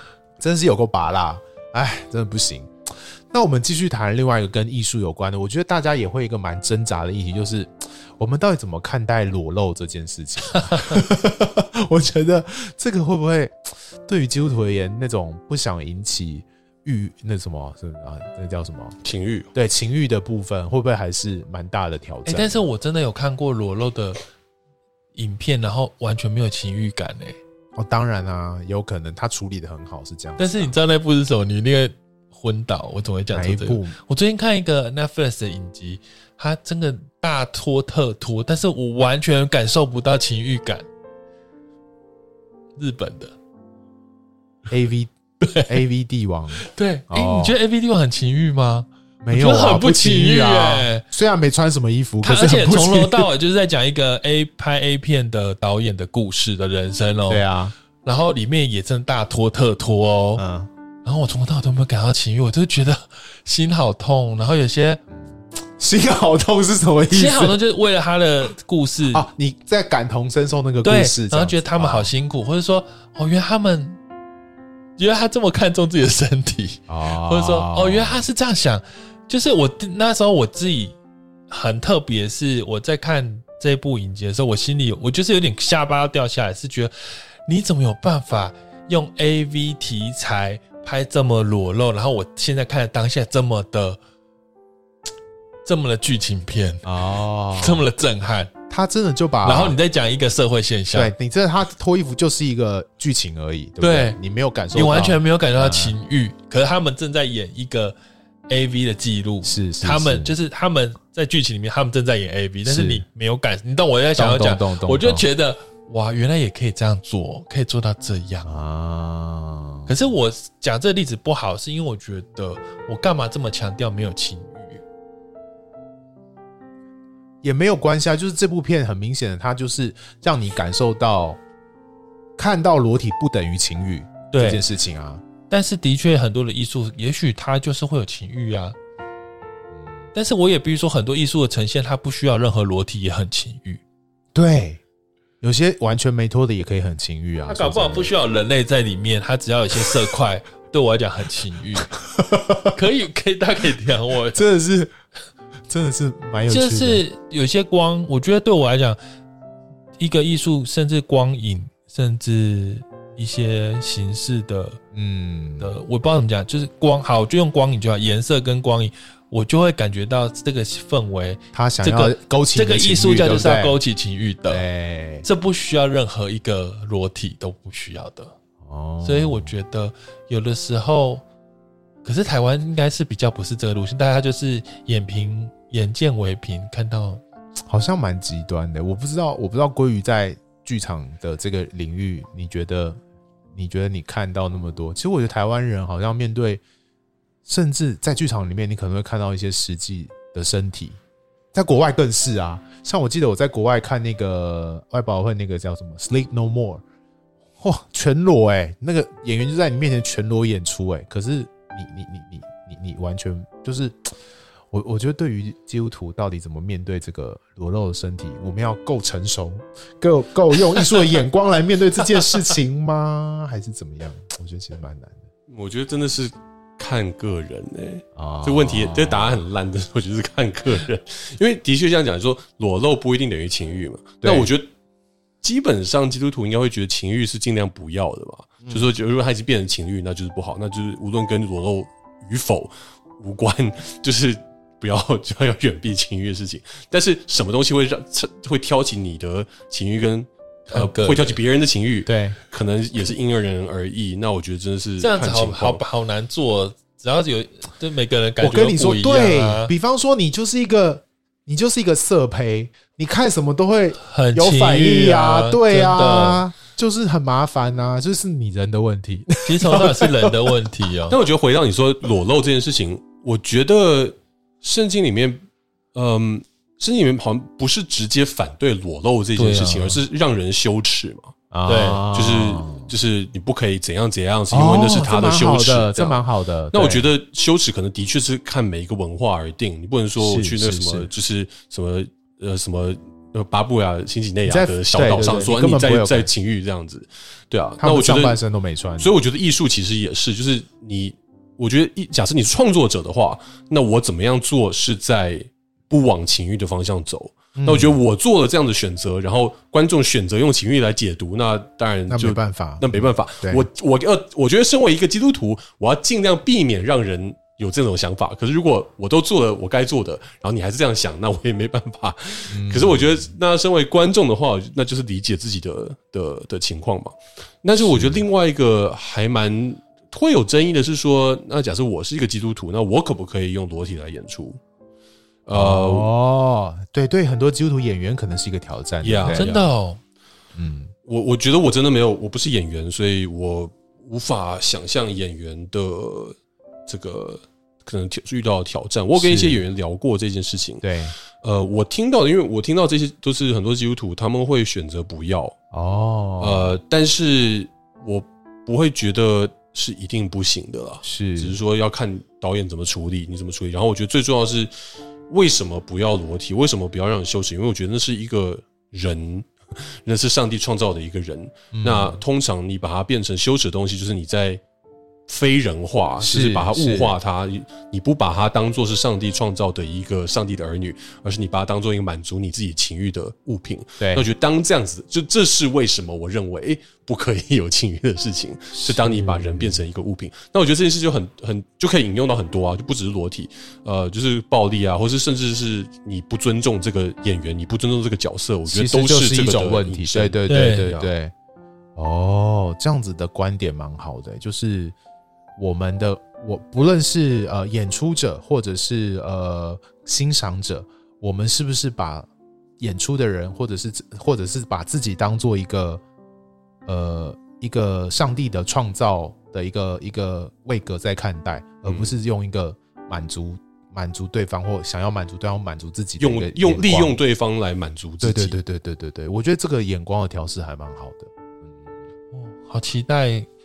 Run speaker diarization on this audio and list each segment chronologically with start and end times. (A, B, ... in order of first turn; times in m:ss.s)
0:00.4-0:19.0 A
0:19.0-0:19.5 B
0:19.5-0:22.6 A
0:22.2-0:24.2 C
0:25.2-0:27.4 C
0:27.8-0:30.8 A
0:30.4-0:40.9 C
0:33.3-0:34.0 A
0:42.8-0:43.4 C
0:44.7-0:47.6 A
0:45.4-0:45.7 C
0:46.6-0:51.0 C
0:49.2-0:53.3 A
0:52.2-0:57.5 C
0:57.3-0:57.7 A
0:58.0-1:00.4 C
1:00.4-1:00.7 A
1:01.0-1:05.0 C
1:05.8-1:07.6 A
1:07.1-1:09.2 C
1:09.1-1:12.1 A
1:10.8-1:14.0 C
1:15.0-1:21.0 C
1:16.9-1:18.2 A
1:21.5-1:34.0 C
1:35.6-1:36.9 C
1:36.8-1:37.9 A
1:37.6-1:38.5 C
1:38.7-1:39.8 A
1:39.4-1:41.1 C
1:40.9-1:46.0 A
1:43.8-1:44.2 C
1:44.7-1:48.0 C
1:48.5-1:58.5 C
1:49.4-1:50.4 A
1:52.6-1:53.0 A
1:54.2-1:55.3 A
1:58.4-1:59.9 A
1:59.9-2:04.8 C
2:07.4-2:11.4 A
2:12.4-2:15.2 A
2:14.3-2:14.6 C
2:15.5-2:18.8 C
2:20.1-2:23.8 C
2:24.3-2:24.8 A
2:25.4-2:28.1 A
2:27.5-2:31.9 C
2:32.0-2:32.7 A
2:32.6-2:34.4 C
2:34.3-2:34.9 A
2:35.7-2:37.0 A
2:36.5-2:39.0 C
2:40.0-2:44.8 C
2:44.9-2:45.7 A
2:45.6-2:54.6 C
2:51.5-2:53.8 A
2:54.5-2:55.2 A
2:55.2-2:58.4 C
2:58.6-2:59.5 A
2:59.0-3:01.2 C
3:02.0-3:07.2 C
3:07.7-3:13.0 A
3:13.5-3:16.6 A
3:17.4-3:21.0 A
3:21.5-3:26.8 A
3:27.6-3:34.1 A
3:34.7-3:45.2 A
3:45.5-3:54.7 B
3:48.2-3:49.3 A
3:54.2-3:54.5 A
3:55.4-4:15.8 B
4:10.7-4:11.4 C
4:12.1-4:12.4 A
4:15.0-4:19.7 C
4:18.4-4:30.5 A
4:24.0-4:26.4 C
4:29.4-4:31.2 C
4:31.1-4:35.4 B
4:35.9-4:41.4 B
4:39.4-4:40.0 C
4:41.5-4:42.9 A
4:41.7-4:42.0 C
4:42.1-4:46.2 B
4:44.5-4:47.1 A
4:46.7-4:58.4 B
4:50.2-4:51.1 A
4:54.4-4:56.3 A
4:57.8-4:59.1 A
4:59.0-5:34.6 B
5:07.6-5:08.0 A
5:12.1-5:13.7 A
5:22.5-5:23.3 A
5:27.8-5:28.2 A
5:35.5-5:36.1 B
5:35.5-5:39.5 A
5:39.0-5:39.6 B
5:39.2-5:40.0 C
5:40.6-5:40.9 A
5:41.1-5:55.6 B
5:49.2-5:49.6 A
5:50.8-5:51.2 A
5:55.7-5:56.8 A
5:56.4-6:04.7 B
6:01.0-6:01.6 A
6:05.3-6:14.6 B
6:11.7-6:12.2 A
6:15.3-6:41.1 B
6:16.2-6:17.1 A
6:24.0-6:24.3 A
6:28.8-6:29.8 A
6:38.7-6:41.3 A
6:40.5-6:40.9 C
6:42.0-6:45.0 A
6:45.6-6:52.3 A
6:52.8-6:56.0 A
6:56.9-7:07.2 A
7:01.8-7:02.2 B
7:06.2-7:08.6 B
7:08.2-7:11.9 A
7:12.3-7:13.5 C